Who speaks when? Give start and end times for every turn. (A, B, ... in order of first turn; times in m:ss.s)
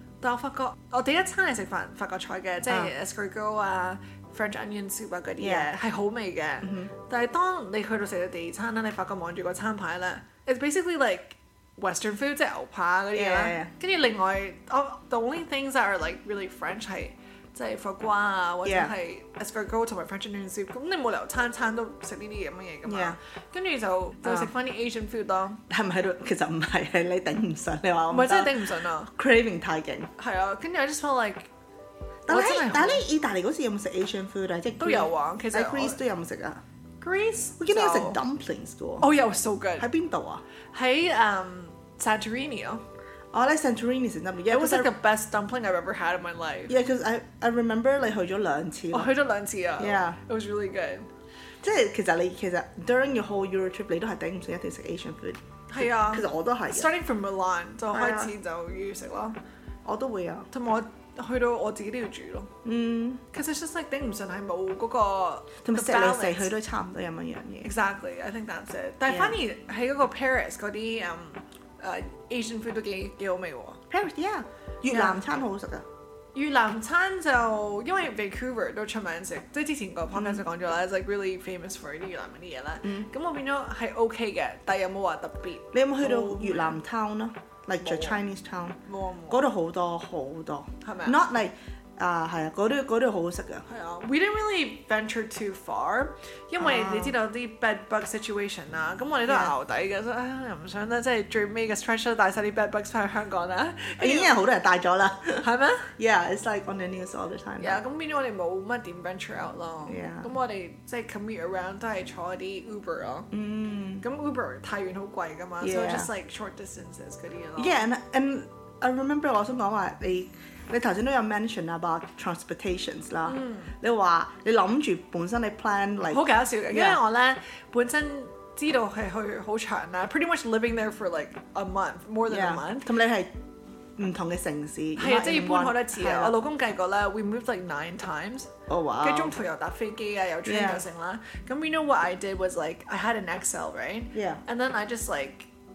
0:00.2-0:25.6 A
0:05.4-0:05.7 B
0:06.6-0:06.9 B
0:13.1-0:13.7 B
0:18.6-0:18.9 B
0:22.9-0:23.2 B
0:24.2-0:24.5 B
0:25.7-0:28.6 B
0:28.1-0:29.1 A
0:29.1-0:30.1 B
0:30.2-0:31.5 A
0:32.3-0:36.6 B
0:32.3-0:33.1 A
0:34.8-0:36.0 A
0:37.0-0:38.2 A
0:37.6-0:39.1 B
0:39.0-0:39.9 A
0:39.8-0:40.4 B
0:40.7-0:42.8 A
0:43.3-0:44.9 B
0:44.5-0:46.7 A
0:46.7-0:49.1 B
0:48.9-0:51.1 A
0:49.8-0:50.2 B
0:51.6-0:56.9 B
0:55.7-0:59.4 A
0:57.9-0:58.3 B
0:59.8-1:00.5 B
1:00.5-1:02.5 A
1:02.6-1:03.2 B
1:03.3-1:06.5 A
1:05.6-1:07.7 B
1:07.6-1:13.8 A
1:09.1-1:09.4 B
1:13.9-1:15.8 B
1:14.9-1:15.2 A
1:16.4-1:26.8 A
1:20.1-1:20.4 B
1:25.7-1:28.8 B
1:27.8-1:28.2 A
1:28.9-1:29.4 A
1:29.3-1:33.6 B
1:30.8-1:31.2 A
1:33.7-1:44.4 A
1:36.6-1:37.2 B
1:39.3-1:39.5 B
1:44.0-1:45.5 B
1:45.4-1:45.9 A
1:46.0-1:47.8 B
1:47.6-1:53.3 A
1:49.9-1:50.3 B
1:53.3-1:54.0 B
1:54.0-1:57.8 A
1:55.6-1:56.1 B
1:57.6-2:07.0 B
2:03.3-2:03.7 A
2:06.1-2:12.9 A
2:12.3-2:13.3 B
2:14.0-2:16.4 B
2:15.0-2:18.5 A
2:18.7-2:19.4 B
2:19.0-2:25.5 A
2:20.4-2:20.9 B
2:24.1-2:24.4 B